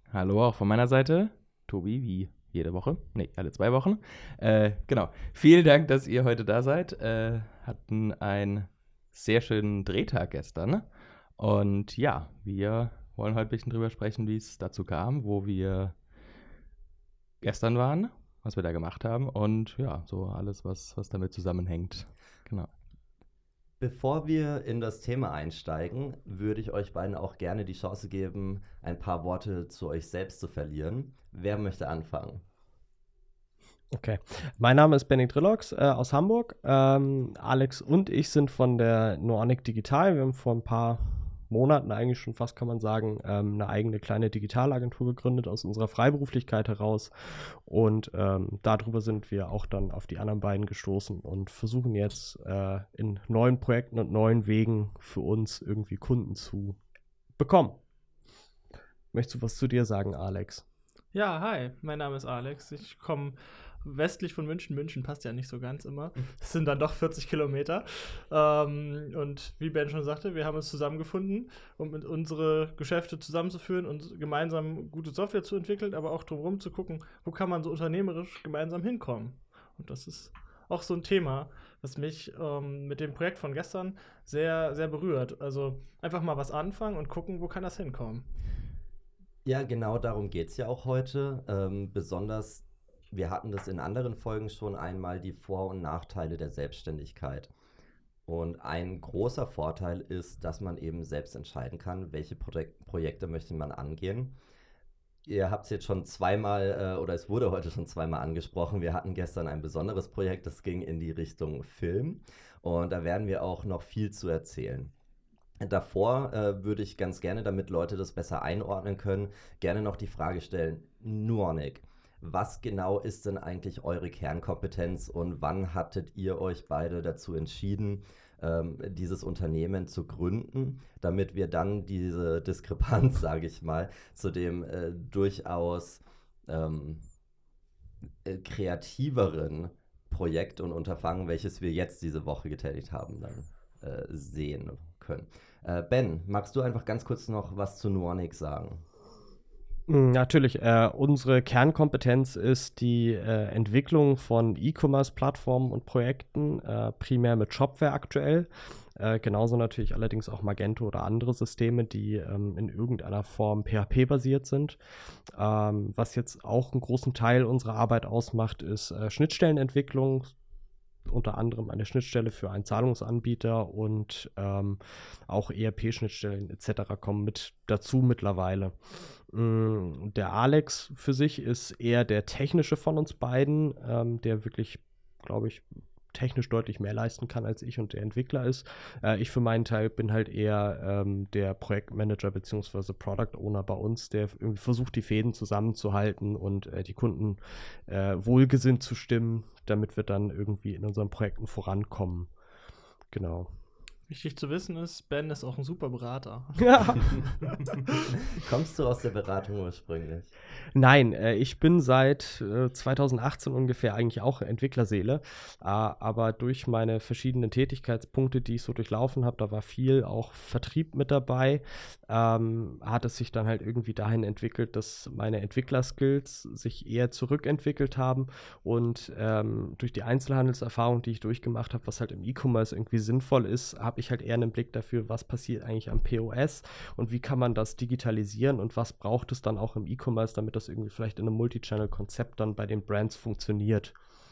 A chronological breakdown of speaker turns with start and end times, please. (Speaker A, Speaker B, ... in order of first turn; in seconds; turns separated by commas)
Speaker A: 0.1-16.0, Speaker A: 17.4-22.7, Speaker B: 23.8-32.4, Speaker C: 33.9-56.8, Speaker C: 57.4-57.8, Speaker C: 59.1-60.6, Speaker D: 61.1-88.3, Speaker B: 89.5-97.5, Speaker B: 98.3-104.3, Speaker B: 105.2-114.9, Speaker B: 115.6-137.1, Speaker B: 138.2-148.8, Speaker C: 149.9-164.8, Speaker C: 165.3-170.4, Speaker C: 171.1-202.3, Speaker C: 203.1-203.5, Speaker D: 204.1-207.8, Speaker C: 206.6-207.0, Speaker B: 208.4-210.3, Speaker C: 210.8-243.9